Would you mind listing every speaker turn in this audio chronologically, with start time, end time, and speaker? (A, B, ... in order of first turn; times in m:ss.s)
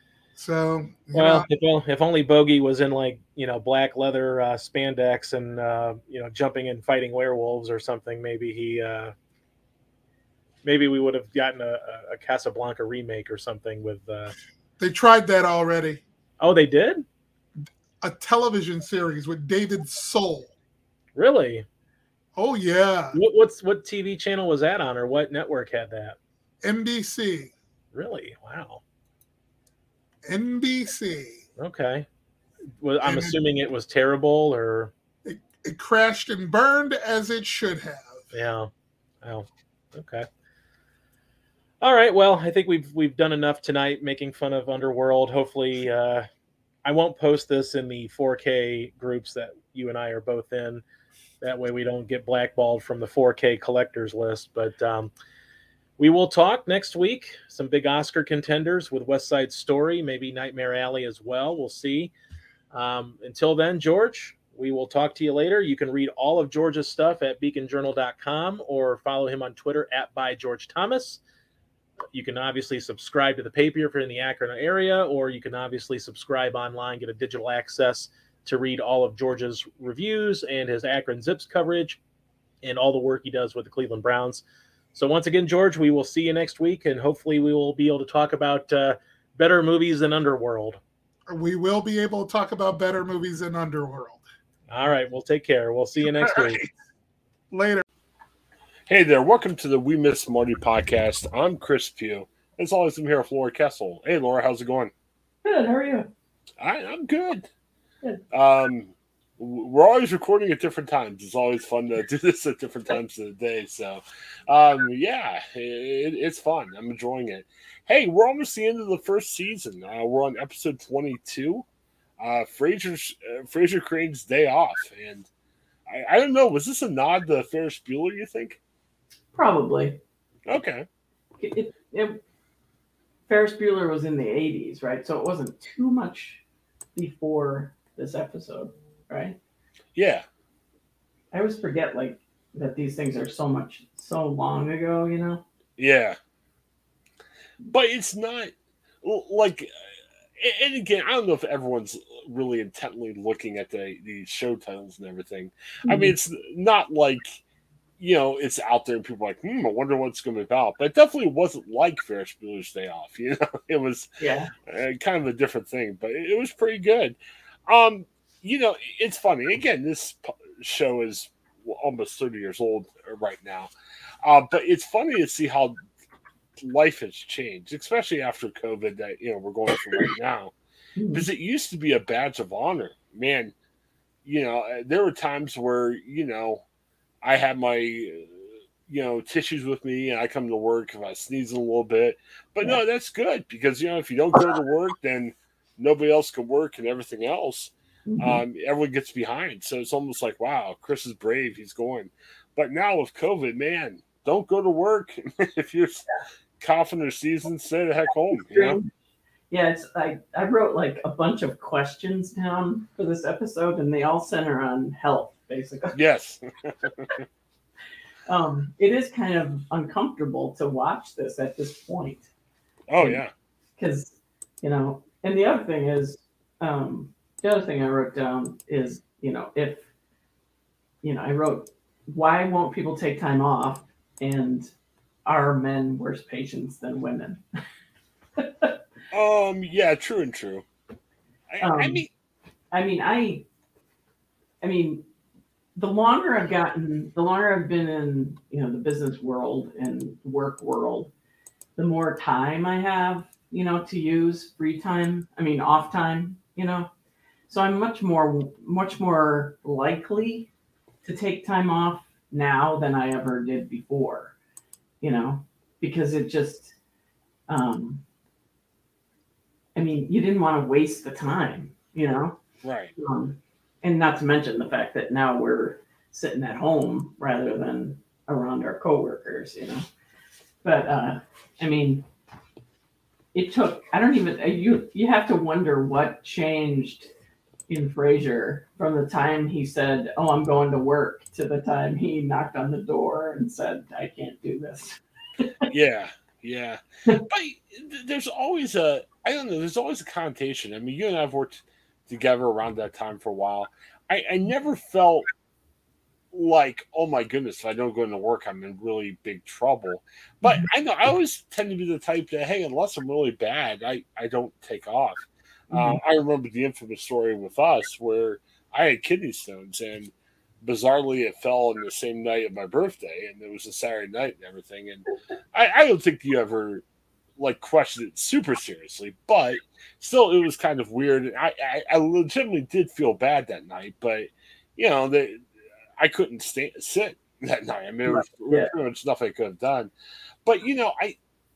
0:00.4-0:01.5 A
0:01.1-0:09.1 B
0:10.6-0:14.4 B
0:14.8-0:16.0 A
0:16.4-0:17.0 B
0:18.0-0:20.5 A
0:21.2-0:21.6 B
0:22.4-0:23.2 A
0:23.1-0:26.2 B
0:26.6-0:27.5 A
0:27.9-0:28.8 B
0:30.3-0:31.4 A
0:31.6-0:32.1 B
0:32.8-0:34.9 B
0:33.0-0:33.4 A
0:35.2-0:38.2 A
0:38.3-0:38.7 B
0:39.2-0:40.3 B
0:41.8-0:46.3 B
0:46.8-0:50.8 B
0:51.4-0:55.1 B
0:56.0-1:02.1 B
1:02.7-1:11.2 B
1:12.1-1:22.0 B
1:22.6-1:24.4 B
1:24.9-1:30.8 B
1:31.3-1:34.2 A
1:34.7-1:36.6 B
1:37.5-1:37.8 A
1:38.9-1:44.9 C
1:45.4-1:46.1 D
1:46.6-1:47.5 C
1:48.3-2:01.6 C
2:02.2-2:05.3 C
2:05.9-2:08.6 C
2:09.3-2:10.0 D
2:10.5-2:10.9 C
2:11.4-2:12.2 D
2:13.3-2:16.4 D
2:17.0-2:19.4 D
2:20.0-2:20.2 C
2:21.3-2:25.4 D
2:25.8-2:26.2 C
2:27.7-2:28.5 C
2:29.0-2:29.7 C
2:30.4-2:37.4 C
2:35.9-2:36.2 D
2:38.0-2:44.1 C
2:44.2-2:44.5 D
2:44.7-2:53.7 C
2:54.2-2:55.8 C
2:56.6-3:00.5 C
3:01.0-3:01.3 D
3:01.1-3:03.5 C
3:04.2-3:06.6 C
3:07.2-3:26.1 C
3:18.1-3:18.4 D
3:26.6-3:28.8 C
3:28.4-3:28.9 D
3:29.5-3:36.0 D
3:36.0-3:37.2 C
3:38.3-3:42.3 D
3:42.9-3:43.3 C
3:43.8-3:49.8 D
3:51.0-3:54.7 D
3:55.2-3:57.4 D
3:58.4-3:58.7 D
3:59.1-4:00.6 C
4:01.5-4:02.1 C
4:01.6-4:02.0 D
4:02.7-4:03.4 D
4:04.6-4:05.0 D
4:05.8-4:11.1 D
4:11.8-4:16.9 D
4:17.5-4:20.5 D
4:21.0-4:24.3 D
4:25.0-4:26.7 D
4:27.5-4:28.0 D
4:29.8-4:32.4 D
4:32.6-4:32.9 C
4:33.0-4:39.8 D
4:40.6-4:42.0 D
4:43.3-4:47.1 D
4:47.7-4:55.7 D
4:55.7-5:05.3 C
5:06.3-5:26.8 C
5:15.7-5:16.0 D
5:27.4-5:35.4 C
5:36.0-5:39.9 C
5:38.1-5:38.7 D
5:40.4-5:41.2 C